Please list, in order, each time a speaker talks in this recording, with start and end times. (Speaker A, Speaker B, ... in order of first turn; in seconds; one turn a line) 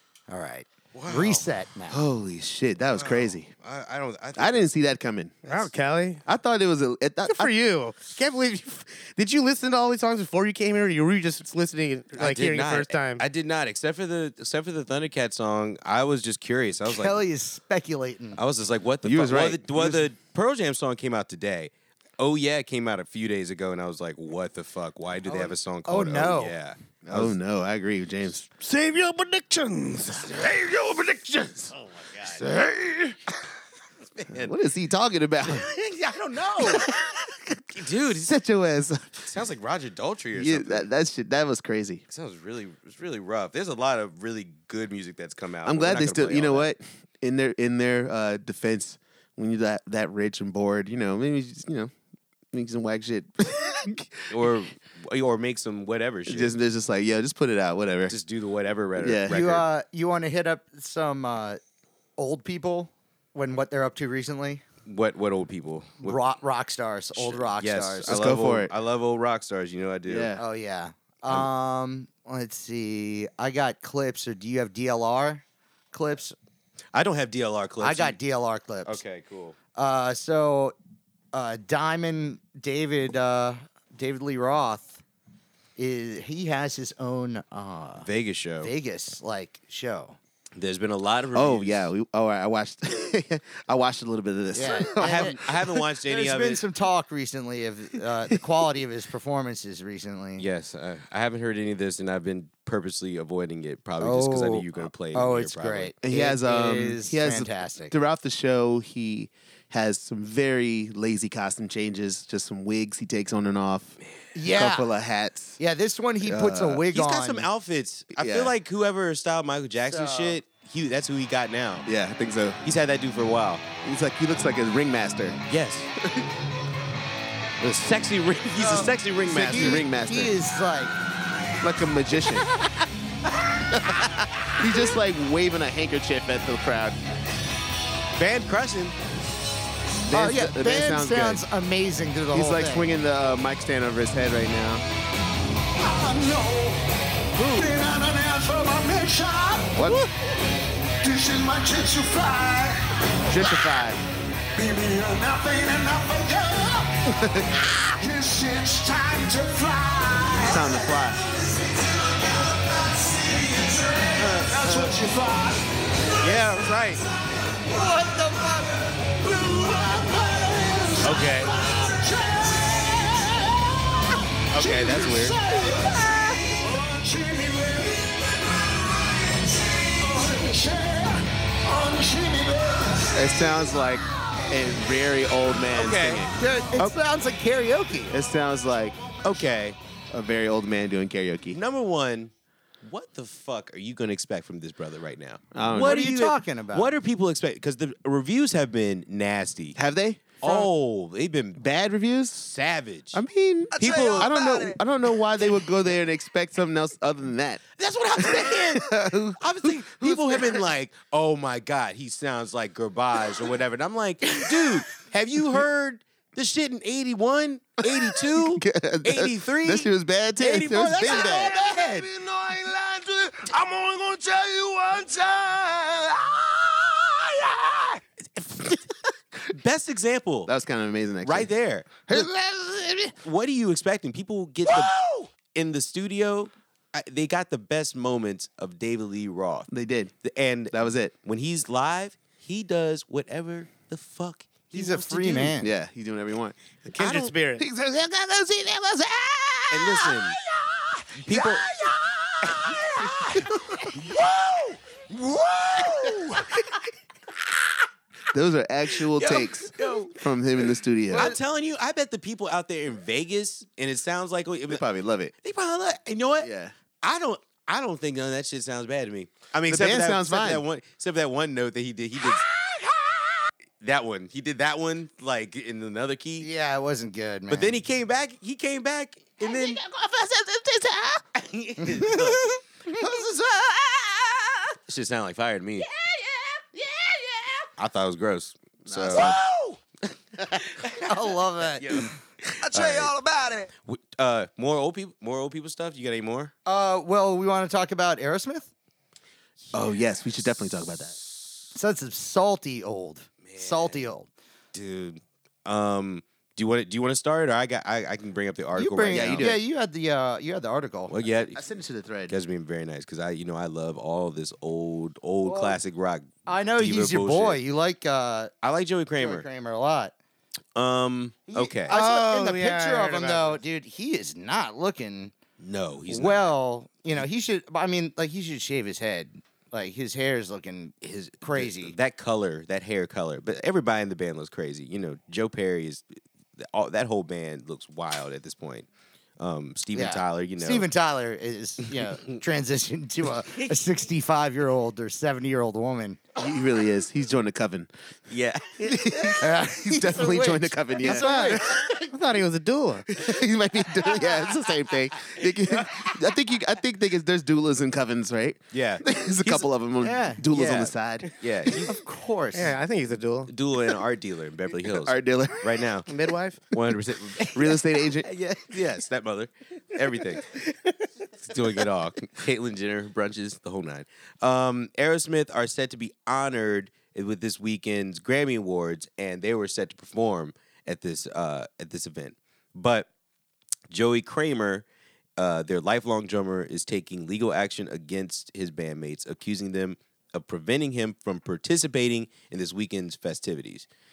Speaker A: 0.3-2.0
Speaker B: 0.9-1.5
Speaker C: 1.9-3.5
Speaker B: 3.0-4.7
Speaker C: 4.4-5.4
Speaker D: 5.5-6.2
Speaker C: 6.3-7.5
Speaker D: 7.3-13.2
Speaker B: 12.2-17.2
Speaker A: 16.9-18.4
Speaker B: 18.4-27.4
Speaker C: 19.0-20.0
Speaker A: 25.3-26.6
Speaker C: 27.0-28.5
Speaker D: 28.6-30.3
Speaker C: 30.3-31.7
Speaker B: 31.7-32.5
Speaker C: 32.4-33.2
Speaker B: 34.1-34.5
Speaker C: 34.4-35.7
Speaker B: 35.5-36.9
Speaker C: 36.8-37.1
Speaker B: 37.7-38.3
Speaker C: 38.1-39.2
Speaker B: 39.2-40.9
Speaker C: 40.4-42.0
Speaker B: 42.1-46.7
Speaker C: 45.6-51.9
Speaker C: 52.5-54.5
Speaker B: 54.3-56.5
Speaker C: 56.3-58.2
Speaker B: 58.1-59.6
Speaker C: 59.0-59.4
Speaker A: 59.3-61.6
Speaker A: 62.2-64.6
Speaker B: 64.9-66.2
Speaker A: 66.0-68.1
Speaker B: 67.2-70.3
Speaker C: 68.1-68.7
Speaker C: 70.1-70.4
Speaker A: 70.4-76.3
Speaker B: 76.9-78.2
Speaker A: 77.8-79.0
Speaker B: 78.9-79.6
Speaker A: 79.8-80.8
Speaker A: 81.3-85.0
Speaker A: 85.8-88.1
Speaker B: 88.0-88.7
Speaker A: 88.6-90.2
Speaker B: 90.6-91.9
Speaker C: 91.3-95.8
Speaker A: 94.5-95.4
Speaker B: 95.0-96.6
Speaker A: 96.0-100.5
Speaker B: 100.4-105.9
Speaker A: 104.0-107.9
Speaker C: 106.0-115.6
Speaker A: 114.3-114.9
Speaker A: 115.6-117.5
Speaker C: 116.2-116.8
Speaker B: 116.9-121.9
Speaker C: 118.2-118.5
Speaker A: 119.8-120.4
Speaker C: 121.9-122.6
Speaker B: 122.6-123.7
Speaker C: 123.8-125.4
Speaker B: 125.5-125.9
Speaker B: 127.6-129.8
Speaker A: 128.6-130.9
Speaker C: 129.2-130.3
Speaker C: 131.6-132.5
Speaker C: 134.6-137.0
Speaker B: 138.2-138.9
Speaker C: 140.1-141.4
Speaker A: 140.1-142.9
Speaker C: 142.3-144.8
Speaker E: 145.8-150.0
Speaker C: 149.8-150.1
Speaker E: 151.0-153.6
Speaker C: 153.3-154.0
Speaker E: 154.6-157.2
Speaker C: 157.1-157.6
Speaker E: 157.8-161.2
Speaker C: 160.3-161.2
Speaker E: 162.3-166.5
Speaker B: 164.2-164.9
Speaker B: 166.2-167.0
Speaker E: 167.4-178.2
Speaker B: 171.0-171.5
Speaker B: 174.5-175.4
Speaker E: 179.1-183.5
Speaker C: 183.1-186.9
Speaker B: 185.8-186.3
Speaker A: 186.4-188.2
Speaker C: 188.1-189.0
Speaker B: 189.2-189.8
Speaker C: 190.1-191.6
Speaker B: 191.5-192.3
Speaker B: 192.8-199.8
Speaker C: 195.5-196.1
Speaker A: 195.8-196.9
Speaker C: 199.8-200.6
Speaker B: 200.4-201.7
Speaker C: 201.6-202.5
Speaker B: 202.4-203.2
Speaker C: 203.1-207.6
Speaker E: 203.7-204.8
Speaker B: 203.8-204.3
Speaker B: 207.8-222.1
Speaker C: 208.2-210.6
Speaker C: 217.8-221.7
Speaker E: 221.0-228.0
Speaker B: 228.4-228.8
Speaker B: 229.5-230.5
Speaker C: 230.5-231.5
Speaker B: 231.2-232.3
Speaker C: 232.1-233.1
Speaker B: 233.2-239.7
Speaker E: 234.7-235.3
Speaker C: 239.7-240.1
Speaker B: 240.2-244.7
Speaker C: 240.7-241.1
Speaker A: 244.7-245.7
Speaker C: 244.8-250.0
Speaker D: 246.9-247.7
Speaker B: 249.7-250.4
Speaker E: 250.5-256.4
Speaker B: 251.3-251.8
Speaker B: 252.6-253.4
Speaker B: 255.8-256.3
Speaker C: 258.3-261.4
Speaker B: 259.1-260.1
Speaker B: 261.1-264.8
Speaker C: 264.7-265.3
Speaker B: 265.4-266.5
Speaker C: 266.4-266.7
Speaker B: 267.0-272.5
Speaker C: 269.7-270.6
Speaker B: 273.8-276.5
Speaker A: 276.4-277.8
Speaker B: 277.5-282.6
Speaker E: 279.4-279.7
Speaker A: 281.8-282.2
Speaker B: 284.9-285.9
Speaker E: 286.0-287.7
Speaker B: 287.8-289.4
Speaker C: 288.9-289.4
Speaker E: 289.4-289.8
Speaker B: 290.8-291.1
Speaker A: 291.0-292.1
Speaker B: 291.8-292.1
Speaker E: 292.6-293.7
Speaker B: 292.6-293.1
Speaker B: 293.9-296.5
Speaker A: 296.7-298.7
Speaker C: 299.7-301.1
Speaker A: 301.7-304.3
Speaker B: 303.4-304.0
Speaker B: 304.7-309.6
Speaker A: 308.8-311.1
Speaker C: 309.1-309.5
Speaker B: 311.1-311.6
Speaker C: 311.6-312.3
Speaker B: 312.3-317.6
Speaker A: 315.4-315.8
Speaker A: 316.5-318.5
Speaker B: 318.6-319.5
Speaker A: 319.2-320.1
Speaker B: 320.8-321.9
Speaker A: 321.5-325.3
Speaker D: 321.9-323.6
Speaker B: 325.6-326.4
Speaker A: 326.1-331.9
Speaker B: 331.0-336.1
Speaker B: 336.6-338.9
Speaker B: 339.4-340.9
Speaker A: 339.9-346.2
Speaker C: 346.4-347.9
Speaker B: 348.3-349.4
Speaker C: 348.8-351.9
Speaker A: 349.4-351.6
Speaker D: 351.1-353.1
Speaker C: 353.1-361.3
Speaker B: 358.7-359.7
Speaker A: 360.0-360.9
Speaker B: 361.4-362.0
Speaker A: 361.9-362.7
Speaker D: 362.5-363.5
Speaker B: 363.5-366.1
Speaker C: 364.9-365.9
Speaker D: 366.1-366.6
Speaker B: 366.7-367.8
Speaker C: 367.4-368.3
Speaker B: 368.5-370.4
Speaker B: 371.4-383.1
Speaker B: 383.9-384.9
Speaker B: 385.4-393.9